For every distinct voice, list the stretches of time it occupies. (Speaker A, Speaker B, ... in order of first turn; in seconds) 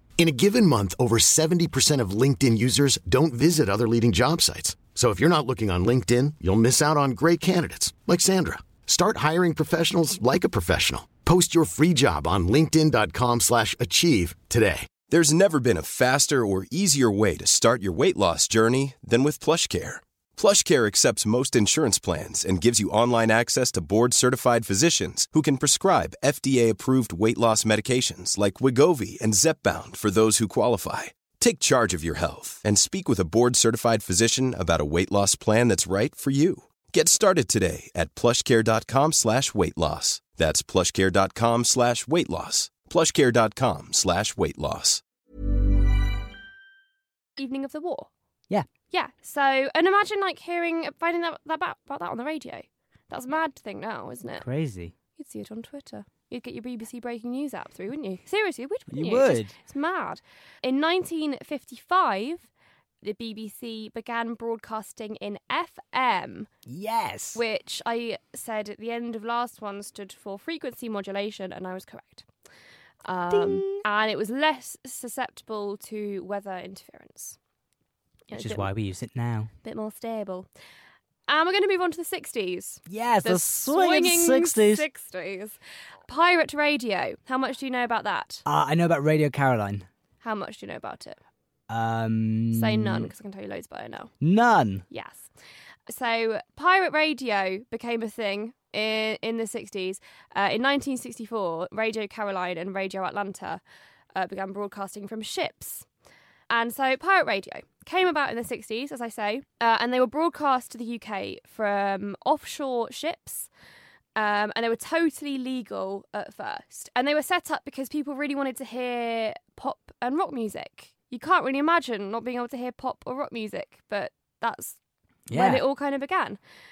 Speaker A: 0.2-14.9
Speaker B: 15.1-45.0
Speaker C: 47.4-48.1, 48.9-54.4, 55.2-62.5, 63.0-66.5, 67.3-72.3, 73.0-77.4, 78.3-78.7, 79.6-80.5, 81.3-88.4, 90.2-91.2, 92.5-94.1, 94.9-95.3, 95.9-103.6, 104.1-105.9, 106.5-113.5, 114.2-124.8, 125.3-126.4
Speaker D: 54.4-54.9, 58.9-59.5, 66.7-67.4, 73.3-73.8, 78.3-79.5, 82.9-84.9, 88.5-89.9, 91.7-93.1, 94.2-94.8, 125.3-125.6